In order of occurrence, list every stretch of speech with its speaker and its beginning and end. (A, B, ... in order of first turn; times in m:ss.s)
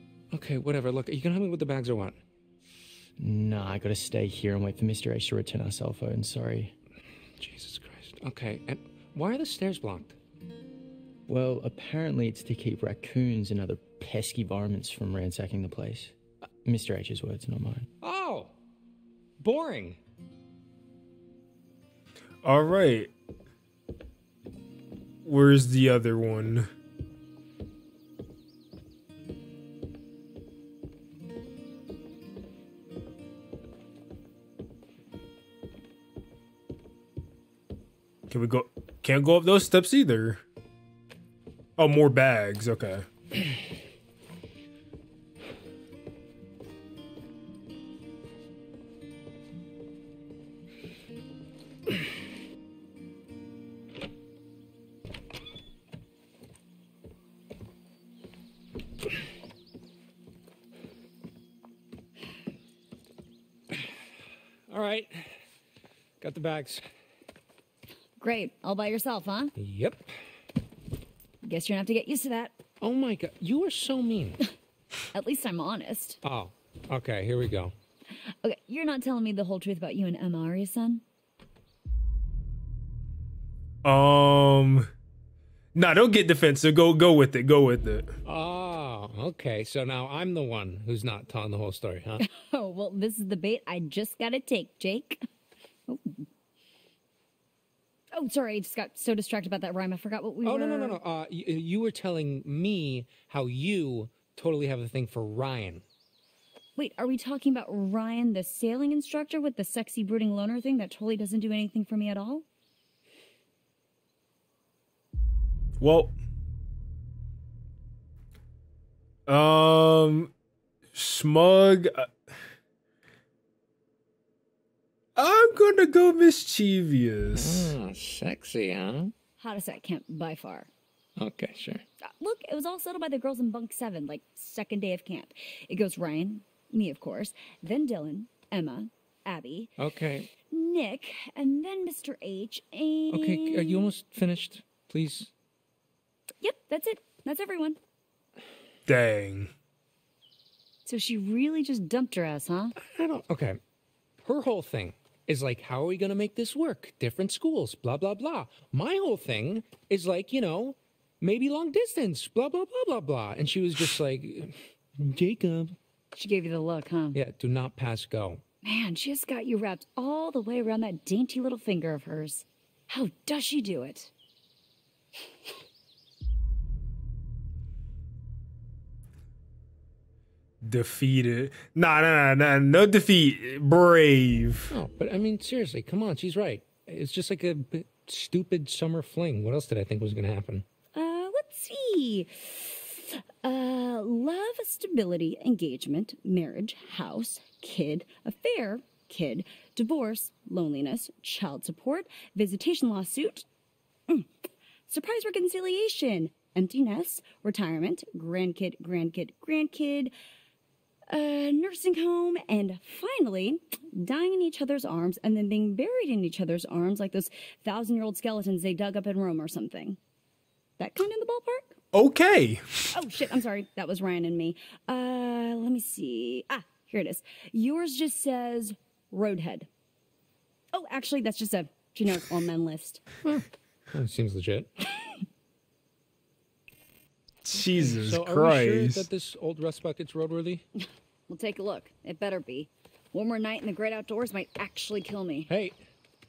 0:00.3-0:02.2 A
0:03.2-0:06.7 B
0:07.4-0:10.2 A
0:11.3-0:17.9 B
0:18.0-0:18.5 A
0:19.4-0:20.0 A
0:22.4-0:23.1 C
0:25.2-0:26.7 C
0:38.3-0:40.4 C
0:41.8-0:43.1 C
1:04.7-1:05.3 A
1:06.2-1:06.8 A
1:08.2-1:09.5 D
1:09.6-1:10.1 A
1:11.4-1:12.6 D
1:12.8-1:14.4 A
1:15.1-1:16.2 D
1:16.2-1:17.7 A
1:18.1-1:21.0 D
1:23.8-1:24.9 C
1:25.8-1:28.1 C
1:28.2-1:32.2 A
1:32.2-1:35.2 D
1:35.9-1:36.2 D
1:38.1-1:41.0 D
1:40.4-1:45.8 A
1:46.8-1:52.4 D
1:55.8-1:56.1 C
1:59.3-2:00.3 C
2:00.9-2:02.1 C
2:05.2-2:07.8 C
2:07.3-2:09.1 A
2:09.4-2:10.7 D
2:11.2-2:11.8 A
2:12.0-2:19.7 D
2:19.8-2:20.3 A
2:20.4-2:23.9 D
2:23.1-2:25.3 A
2:26.4-2:27.8 D
2:28.9-2:29.5 C
2:30.8-2:32.7 D
2:32.8-2:33.6 A
2:34.2-2:45.8 A
2:46.1-2:47.2 D
2:47.1-2:48.4 A
2:48.6-2:54.1 D
3:00.6-3:04.7 C
3:04.7-3:10.6 A
3:10.9-3:23.5 D
3:24.9-3:30.1 D
3:31.1-3:40.0 D
3:40.8-3:41.8 D
3:41.9-3:42.9 C
3:42.9-3:49.7 D
3:50.7-3:53.0 D
3:53.2-3:54.7 A
3:57.4-3:59.1 C
3:57.6-4:00.6 A
4:00.8-4:05.5 D
4:05.5-4:05.8 A